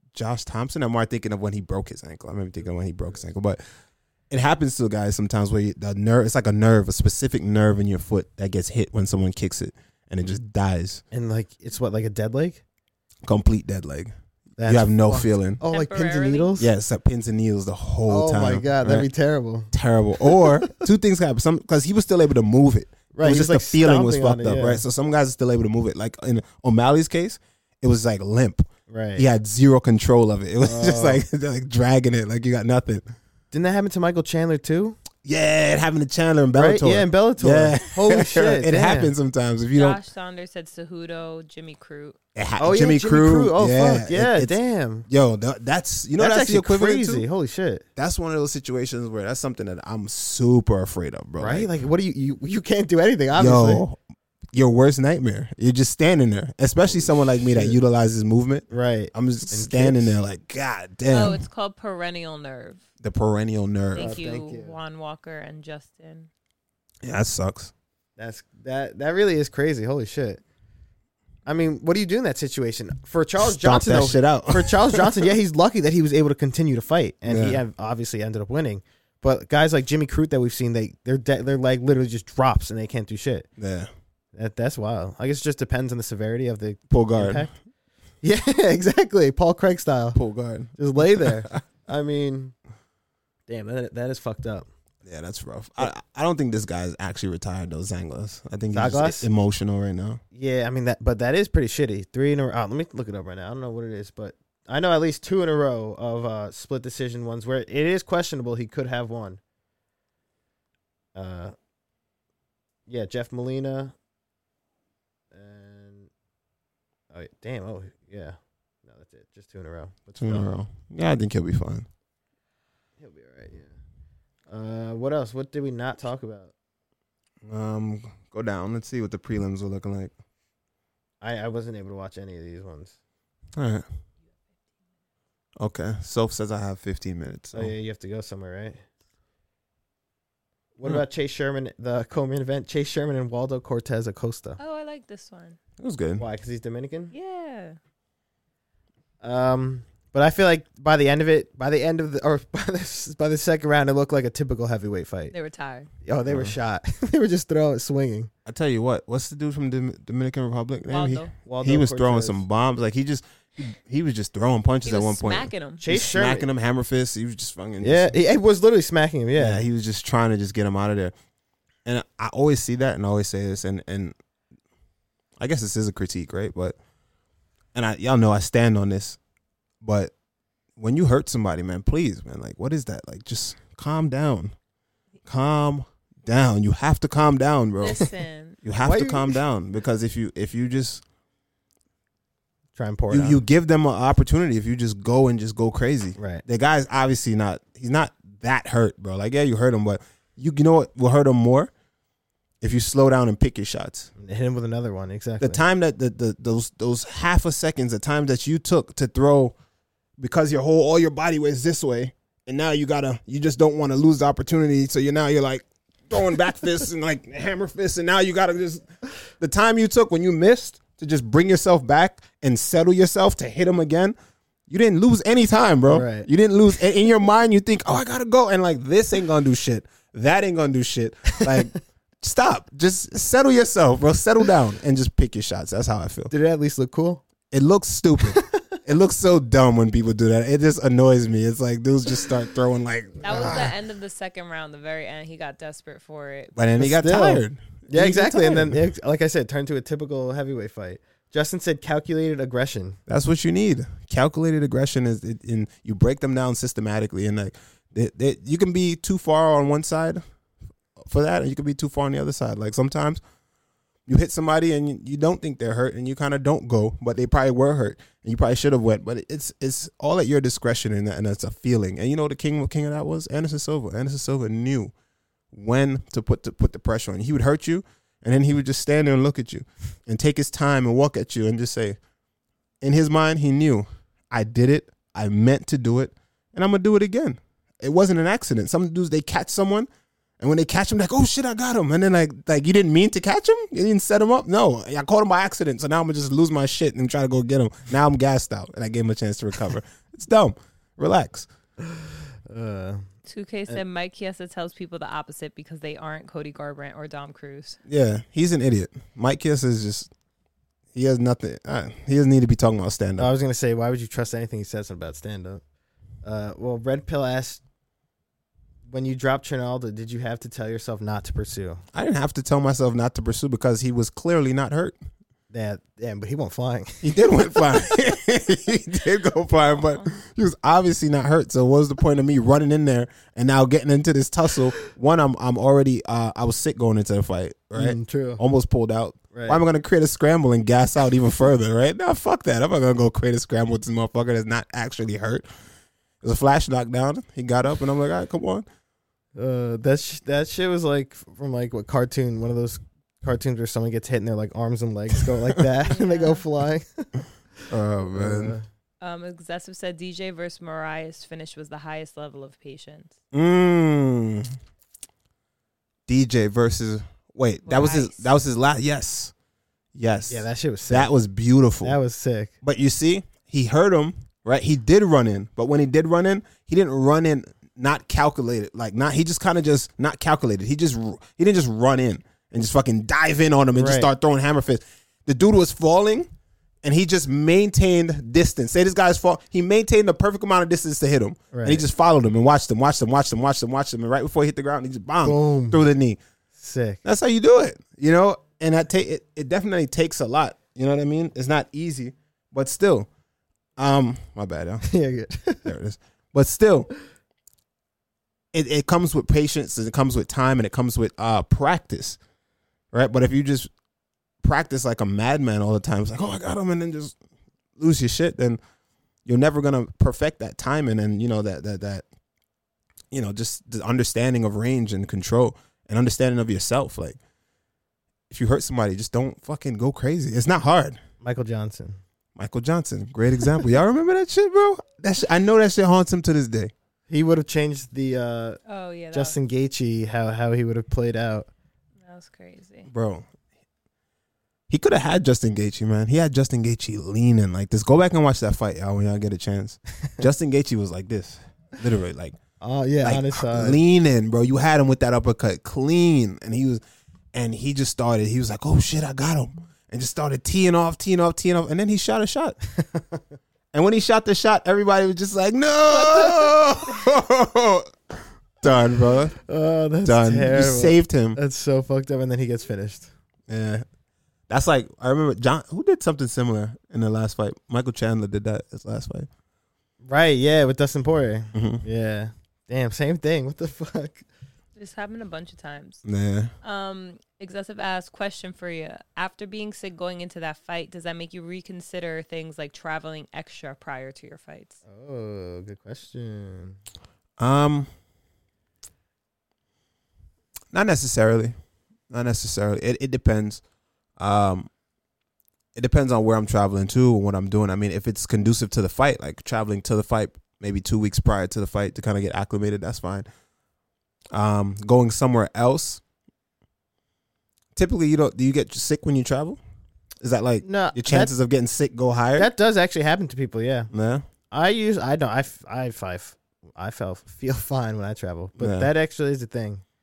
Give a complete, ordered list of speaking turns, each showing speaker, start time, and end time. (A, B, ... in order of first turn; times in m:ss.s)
0:00.1-0:03.6 A
0:04.3-0:11.0 A
0:11.1-0:12.6 B
0:13.2-0:15.6 A
0:14.6-0:16.7 B
0:15.7-0:16.6 C
0:16.6-0:19.1 A
0:18.1-0:20.8 B
0:19.7-0:33.0 A
0:23.1-0:24.8 B
0:28.9-0:29.2 B
0:30.6-0:31.2 B
0:33.5-0:35.0 B
0:35.2-0:40.0 A
0:36.6-0:39.1 B
0:39.7-0:42.2 C
0:42.3-0:44.6 A
0:42.6-0:45.1 B
0:45.1-0:47.2 A
0:46.2-0:47.8 B
0:48.0-0:51.7 A
0:51.4-0:53.8 B
0:53.3-0:54.0 A
0:54.5-1:01.4 A
0:56.9-0:57.7 B
0:58.7-1:00.1 B
1:01.1-1:02.8 C
1:03.0-1:04.2 A
1:03.9-1:06.3 C
1:04.0-1:04.8 B
1:07.0-1:07.7 A
1:08.2-1:10.4 B
1:11.4-1:23.5 B
1:13.4-1:15.3 A
1:17.3-1:17.6 A
1:23.6-1:23.9 A
1:24.3-1:27.5 B
1:26.9-1:27.5 A
1:28.2-1:30.2 B
1:30.1-1:31.6 A
1:30.8-1:32.5 B
1:33.5-1:34.7 B
1:35.0-1:40.2 A
1:38.7-1:39.3 B
1:40.3-1:49.4 B
1:51.1-1:51.5 B
1:52.9-1:53.9 B
1:55.3-1:56.1 B
1:57.1-2:00.5 B
2:00.2-2:01.9 A
2:03.0-2:03.7 B
2:04.5-2:06.5 B
2:07.4-2:10.1 A
2:11.2-2:13.0 B
2:13.5-2:13.8 A
2:15.6-2:17.7 A
2:17.5-2:18.8 B
2:20.8-2:24.6 B
2:24.6-2:25.6 C
2:25.8-2:26.2 A
2:26.2-2:27.1 B
2:27.1-2:27.8 C
2:29.2-2:35.3 B
2:35.3-2:35.9 C
2:36.0-2:38.3 B
2:36.3-2:36.5 A
2:38.4-2:48.1 A
2:40.9-2:41.3 C
2:41.4-2:42.4 B
2:44.8-2:45.8 C
2:45.8-2:46.5 B
2:47.8-2:49.6 B
2:49.4-2:51.1 A
2:51.8-2:54.1 A
2:55.4-2:56.8 A
2:57.7-2:59.2 A
2:59.8-3:00.1 A
3:00.8-3:04.5 A
3:05.2-3:11.0 A
3:07.8-3:08.6 C
3:08.8-3:09.4 B
3:12.8-3:13.4 B
3:13.1-3:21.7 A
3:16.2-3:16.4 B
3:22.6-3:24.1 A
3:24.2-3:25.6 B
3:25.4-3:29.5 A
3:30.2-3:38.8 A
3:39.4-3:44.1 A
3:44.7-3:56.3 A
3:45.9-3:46.3 B
3:51.3-3:51.7 B
3:56.3-3:57.2 B
3:57.5-4:03.7 A
3:58.2-3:58.6 B
4:03.2-4:06.6 C
4:03.3-4:03.7 B
4:06.5-4:08.8 A
4:06.8-4:13.0 B
4:13.1-4:20.2 A
4:21.0-4:23.2 A
4:24.1-4:34.9 A
4:35.5-4:42.0 A
4:42.8-4:49.9 A
4:50.4-5:01.5 A
5:01.8-5:03.1 B
5:03.3-5:07.8 C
5:07.9-5:10.1 A
5:10.9-5:13.3 A
5:13.2-5:15.6 B
5:16.2-5:17.6 B
5:18.9-5:21.8 B
5:21.9-5:25.0 A
5:25.5-5:27.8 B
5:27.0-5:45.5 A
5:29.8-5:30.1 C
5:37.8-5:38.4 B
5:39.3-5:39.6 B
5:46.2-5:48.6 A
5:49.3-5:58.6 B
5:55.9-5:56.4 C
5:57.7-5:58.6 A
5:59.0-6:03.2 C
6:03.3-6:04.6 A
6:06.1-6:09.3 A
6:07.6-6:08.3 C
6:09.9-6:12.0 A
6:10.3-6:11.1 B
6:11.8-6:12.5 B
6:12.6-6:26.3 A
6:23.7-6:24.1 B
6:26.8-6:36.2 A
6:31.5-6:31.8 B
6:35.2-6:35.8 B
6:36.6-6:37.0 B
6:37.0-6:43.1 A
6:43.8-6:44.9 A
6:44.8-6:45.7 B
6:45.6-6:46.9 A
6:48.5-6:52.2 A
6:52.9-6:53.7 A
6:54.4-6:57.2 A
6:57.8-6:58.6 A
6:59.2-7:02.0 A
7:03.1-7:07.2 A
7:08.3-7:11.0 A
7:11.2-7:12.0 B
7:12.4-7:16.7 A
7:17.1-7:18.6 B
7:18.7-7:19.4 C
7:19.1-7:21.5 B
7:22.0-7:22.9 C
7:22.9-7:23.3 A
7:24.7-7:32.4 A
7:32.6-7:33.8 B
7:33.0-7:36.8 A
7:37.3-7:42.6 A
7:42.8-7:43.2 B
7:43.7-7:49.4 A
7:46.0-7:46.5 C
7:49.4-7:53.1 B
7:50.0-7:51.4 A
7:53.5-7:53.8 A
7:54.5-7:59.3 A
8:00.0-8:04.3 B
8:01.5-8:01.8 A
8:04.8-8:06.0 C
8:06.0-8:06.5 A
8:06.6-8:14.8 C
8:14.8-8:16.8 B
8:17.4-8:17.9 A
8:20.7-8:21.5 A
8:22.1-8:23.6 A
8:24.2-8:24.7 A
8:25.7-8:33.3 A
8:34.3-8:36.0 A
8:37.7-8:39.6 A
8:40.2-8:42.5 A
8:40.6-8:41.3 B
8:42.3-8:43.9 B
8:43.9-8:44.2 A
8:44.5-8:49.8 B
8:48.6-8:48.9 A